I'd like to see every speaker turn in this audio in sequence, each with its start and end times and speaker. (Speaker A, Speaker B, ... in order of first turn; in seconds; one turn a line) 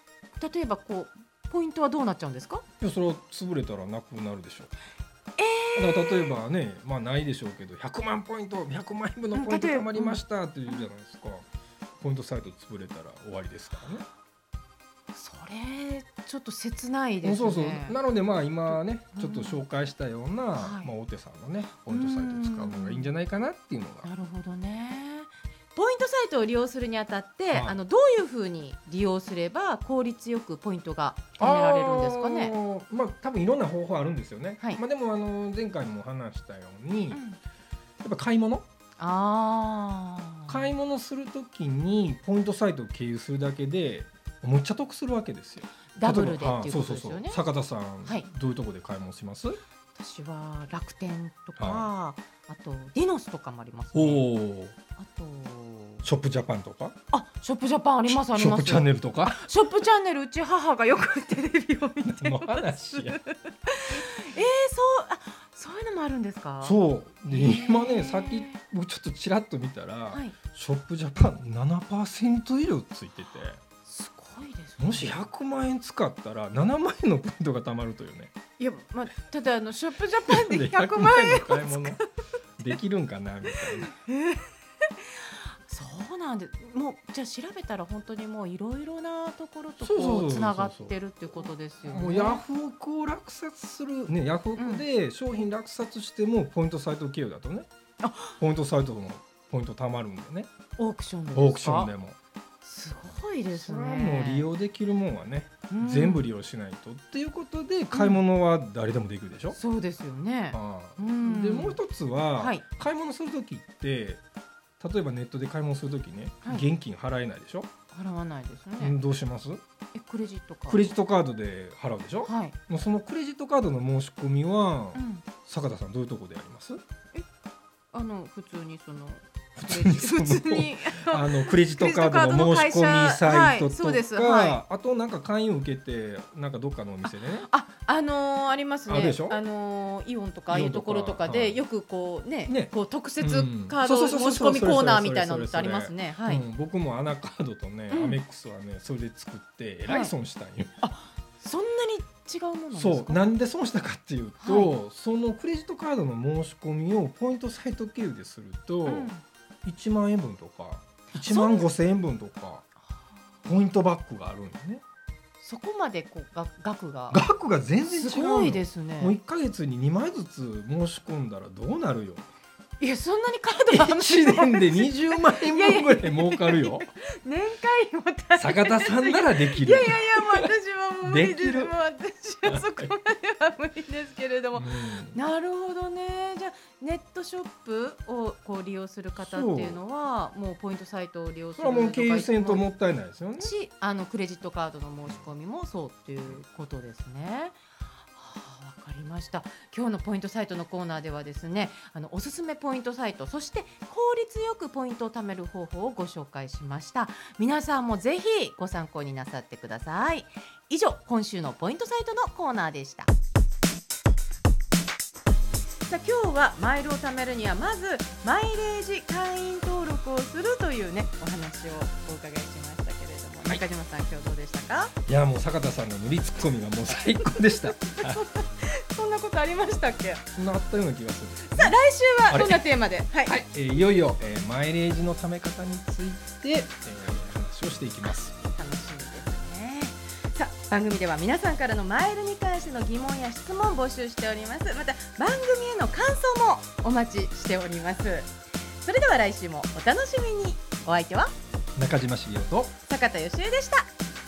Speaker A: 0.4-2.6
Speaker B: 2.8-4.8
Speaker A: 5.4-6.3
Speaker B: 5.7-11.4
Speaker A: 9.3-10.9
Speaker B: 12.0-14.0
Speaker A: 15.1-18.0
Speaker B: 17.2-24.1
Speaker A: 18.7-19.6
Speaker A: 20.6-20.9
Speaker A: 21.9-23.1
Speaker A: 24.0-32.5
Speaker B: 27.5-27.8
Speaker B: 31.4-37.2
Speaker A: 37.1-37.4
Speaker B: 38.0-38.6
Speaker A: 39.0-40.7
Speaker B: 40.5-49.6
Speaker A: 45.9-47.4
Speaker A: 49.9-54.3
Speaker B: 51.6-51.9
Speaker B: 53.9-54.7
Speaker A: 55.0-56.0
Speaker B: 56.0-56.9
Speaker A: 57.1-66.8
Speaker B: 58.1-59.7
Speaker B: 62.0-63.2
Speaker B: 66.6-73.6
Speaker A: 67.3-68.6
Speaker A: 70.1-70.3
Speaker A: 73.8-75.2
Speaker B: 74.8-78.3
Speaker A: 78.6-82.1
Speaker B: 80.2-82.0
Speaker B: 82.6-83.9
Speaker A: 83.5-92.4
Speaker B: 89.8-97.7
Speaker A: 94.5-94.8
Speaker A: 98.0-98.4
Speaker B: 98.4-100.5
Speaker A: 100.8-101.9
Speaker B: 101.3-102.2
Speaker A: 102.6-104.5
Speaker B: 103.5-109.6
Speaker A: 105.7-106.2
Speaker A: 107.9-108.2
Speaker A: 109.5-111.8
Speaker B: 110.5-114.2
Speaker A: 112.4-112.6
Speaker B: 114.8-117.7
Speaker A: 117.9-119.0
Speaker B: 118.8-119.6
Speaker A: 119.9-120.9
Speaker B: 120.7-126.8
Speaker A: 122.2-122.5
Speaker A: 124.9-125.2
Speaker A: 127.9-134.6
Speaker B: 129.6-137.5
Speaker A: 137.1-146.4
Speaker B: 138.9-139.4
Speaker B: 140.5-141.6
Speaker B: 142.5-150.7
Speaker A: 147.9-148.2
Speaker A: 149.8-150.1
Speaker A: 150.8-153.2
Speaker B: 152.7-159.1
Speaker A: 154.4-154.7
Speaker A: 158.8-159.2
Speaker B: 159.6-162.7
Speaker A: 161.2-161.7
Speaker B: 163.4-164.8
Speaker A: 165.4-167.2
Speaker B: 167.1-172.2
Speaker A: 167.9-169.2
Speaker A: 172.8-192.7
Speaker B: 173.7-176.9
Speaker B: 178.4-180.5
Speaker B: 181.0-181.7
Speaker B: 182.4-182.9
Speaker B: 184.5-185.2
Speaker B: 189.2-189.8
Speaker B: 191.6-193.5
Speaker A: 193.4-197.6
Speaker A: 198.1-213.1
Speaker A: 215.8-224.9
Speaker B: 225.1-228.2
Speaker A: 227.2-230.2
Speaker B: 230.3-231.8
Speaker A: 231.5-233.4
Speaker B: 232.3-232.6
Speaker B: 233.2-238.3
Speaker A: 238.0-248.3
Speaker A: 248.8-251.3
Speaker B: 251.8-252.7
Speaker A: 252.9-253.9